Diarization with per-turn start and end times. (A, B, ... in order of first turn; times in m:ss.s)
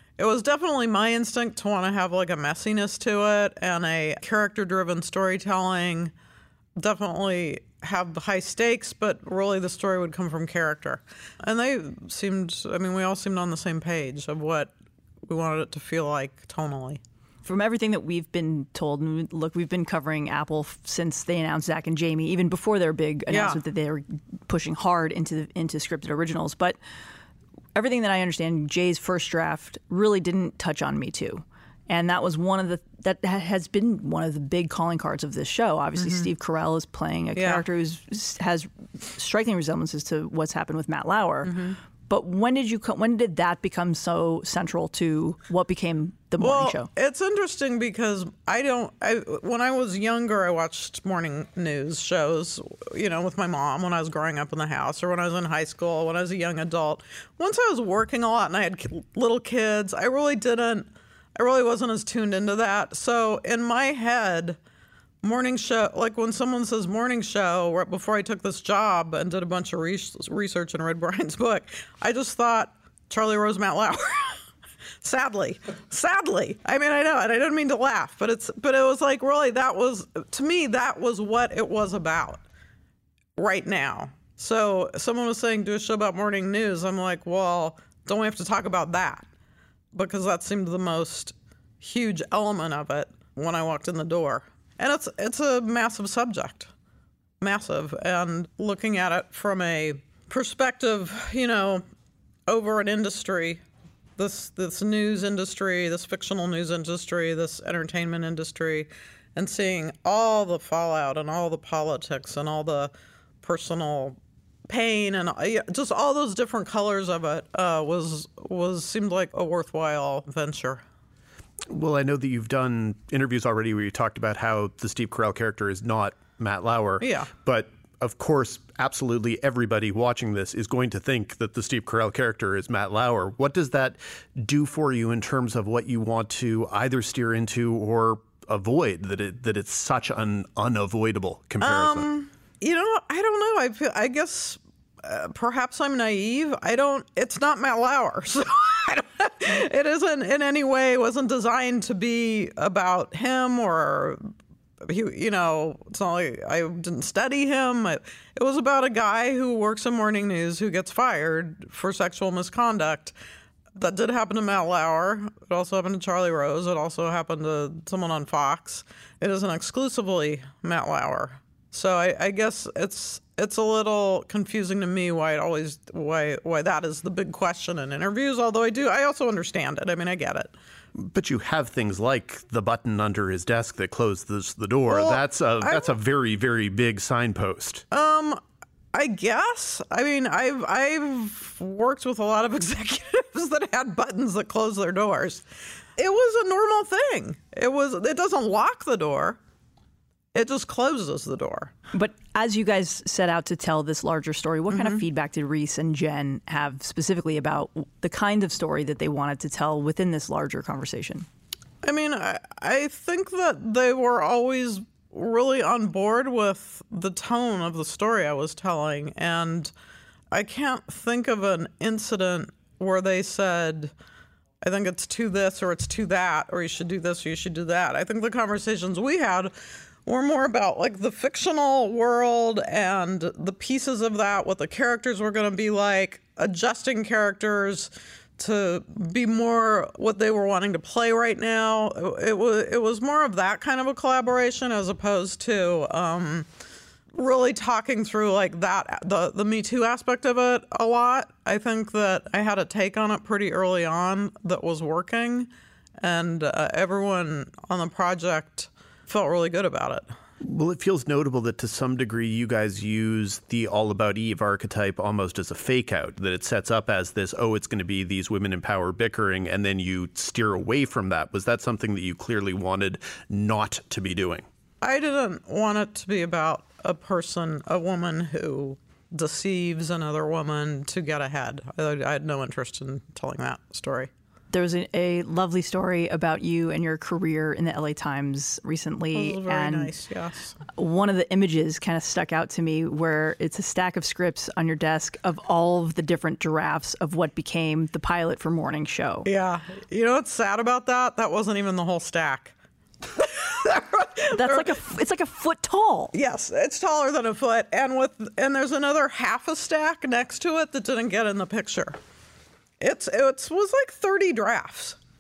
0:00.2-0:06.1 A
0:06.8-0:14.7 A
0:15.2-0:17.0 A
0:17.4-0:26.8 B
0:23.3-0:23.6 A
0:27.8-0:46.9 B
0:36.0-0:36.3 A
0:37.4-0:37.6 A
0:41.4-0:41.8 A
0:46.4-1:04.6 A
1:05.2-1:14.4 A
1:15.0-1:22.4 A
1:23.4-1:29.3 A
1:29.9-1:36.7 A
1:37.4-1:41.8 A
1:42.5-1:43.6 A
1:44.2-1:52.9 A
1:53.4-1:54.2 A
1:54.7-2:00.8 A
2:01.7-2:22.1 C
2:07.0-2:07.3 A
2:21.6-2:34.2 A
2:34.8-2:43.1 A
2:43.8-3:00.5 A
3:01.0-3:07.8 C
3:04.9-3:05.9 A
3:07.9-3:08.4 A
3:08.9-3:15.4 A
3:16.0-3:19.4 A
3:20.3-3:21.7 A
3:21.9-3:31.3 B
3:24.7-3:25.0 A
3:31.8-3:39.7 A
3:40.3-3:43.9 A
3:44.6-3:49.5 A
3:50.0-4:06.5 A
4:07.1-4:20.1 A
4:20.4-4:34.5 C
4:34.8-4:44.1 A
4:44.5-4:49.9 B
4:49.1-4:50.6 A
4:50.7-4:59.3 B
4:59.3-5:02.5 A
5:03.2-5:04.8 A
5:04.3-5:06.1 B
5:06.1-5:12.0 A
5:12.8-5:15.0 A